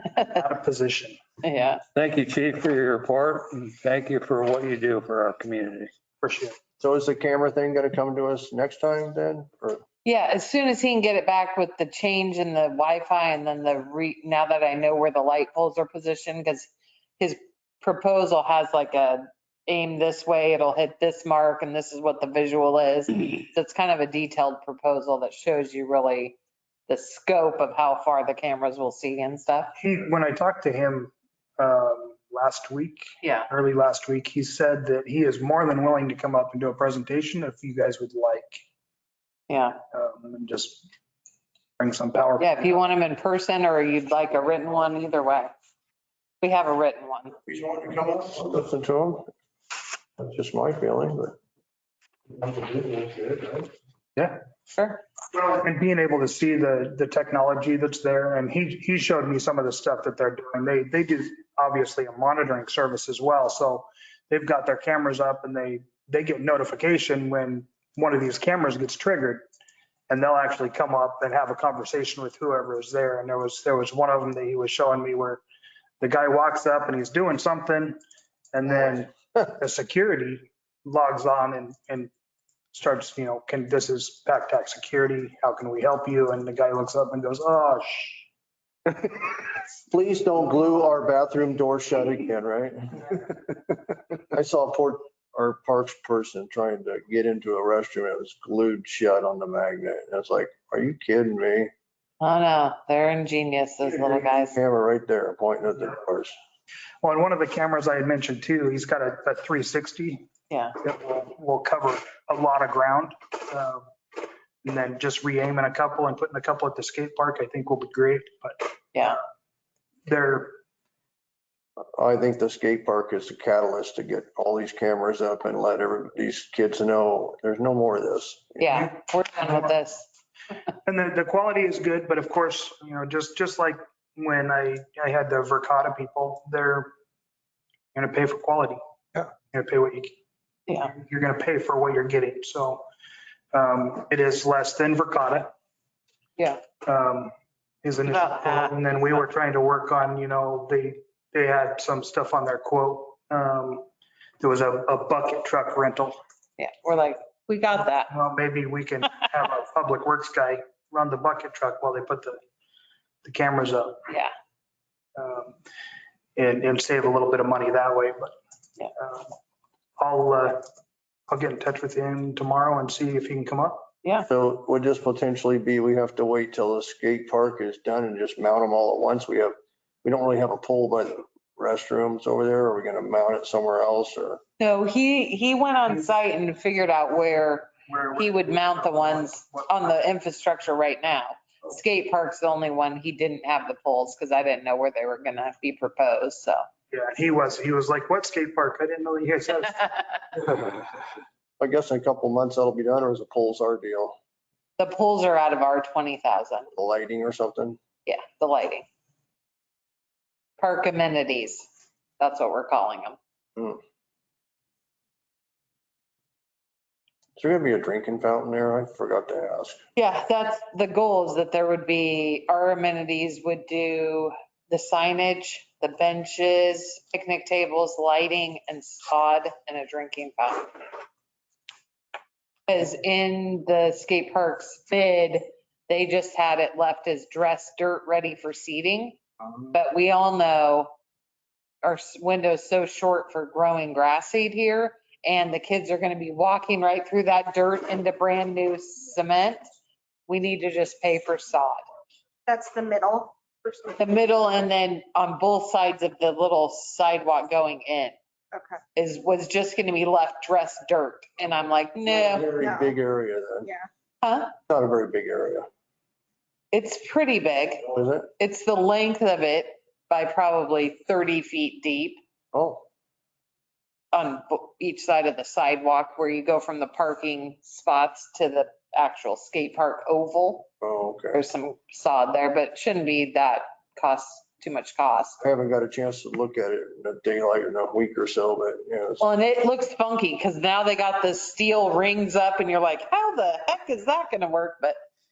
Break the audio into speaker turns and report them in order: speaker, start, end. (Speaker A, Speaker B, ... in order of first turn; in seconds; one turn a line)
Speaker A: 0.2-1.2
Speaker B: 1.4-1.8
Speaker C: 1.9-5.9
Speaker A: 6.2-6.6
Speaker D: 6.8-9.8
Speaker B: 10.0-26.4
Speaker B: 26.9-29.7
Speaker A: 29.8-38.6
Speaker B: 33.2-33.5
Speaker B: 39.5-39.8
Speaker A: 39.9-40.9
Speaker A: 41.8-42.5
Speaker B: 42.4-45.5
Speaker B: 46.4-47.4
Speaker D: 47.5-49.3
Speaker D: 50.2-51.4
Speaker D: 52.4-53.6
Speaker B: 54.7-55.0
Speaker A: 55.3-69.4
Speaker A: 70.1-75.4
Speaker A: 76.0-78.0
Speaker A: 78.5-82.1
Speaker A: 82.7-88.2
Speaker D: 89.0-93.2
Speaker D: 94.3-101.7
Speaker B: 102.2-104.6
Speaker D: 104.3-106.3
Speaker A: 107.0-110.3
Speaker B: 110.5-110.8
Speaker A: 110.8-113.8
Speaker A: 114.6-119.1
Speaker B: 118.9-119.2
Speaker A: 120.1-120.6
Speaker D: 121.8-128.8
Speaker B: 128.6-130.1
Speaker A: 130.8-136.9
Speaker A: 137.9-138.8
Speaker A: 139.5-140.1
Speaker B: 140.7-140.9
Speaker A: 140.8-142.8
Speaker A: 143.5-145.5
Speaker A: 146.8-147.3
Speaker A: 147.8-153.8
Speaker B: 148.1-148.8
Speaker A: 154.4-156.2
Speaker B: 156.6-158.1
Speaker A: 158.1-162.4
Speaker A: 163.2-164.0
Speaker A: 165.2-165.5
Speaker A: 166.3-168.3
Speaker A: 169.0-169.3
Speaker A: 170.0-170.6
Speaker A: 171.3-173.9
Speaker D: 174.3-184.4
Speaker B: 184.6-196.6
Speaker A: 187.9-188.5
Speaker A: 196.9-200.8
Speaker D: 201.6-204.2
Speaker B: 204.8-206.7
Speaker D: 206.7-207.8
Speaker B: 208.1-208.8
Speaker B: 210.6-211.7
Speaker B: 212.2-213.2
Speaker D: 213.6-213.8
Speaker D: 217.4-219.8
Speaker B: 219.9-230.7
Speaker B: 232.7-239.2
Speaker B: 239.7-240.9
Speaker B: 241.8-249.6
Speaker B: 250.3-251.8
Speaker E: 252.5-254.0
Speaker B: 254.0-258.1
Speaker E: 258.5-258.8
Speaker B: 258.9-262.6
Speaker D: 262.1-263.7
Speaker E: 262.6-262.9
Speaker B: 264.2-264.5
Speaker D: 264.7-265.7
Speaker B: 266.7-267.8
Speaker D: 267.8-268.3
Speaker B: 268.4-272.2
Speaker D: 272.5-272.8
Speaker B: 274.1-280.7
Speaker D: 280.8-281.4
Speaker B: 281.3-285.4
Speaker D: 285.4-289.2
Speaker B: 289.2-294.9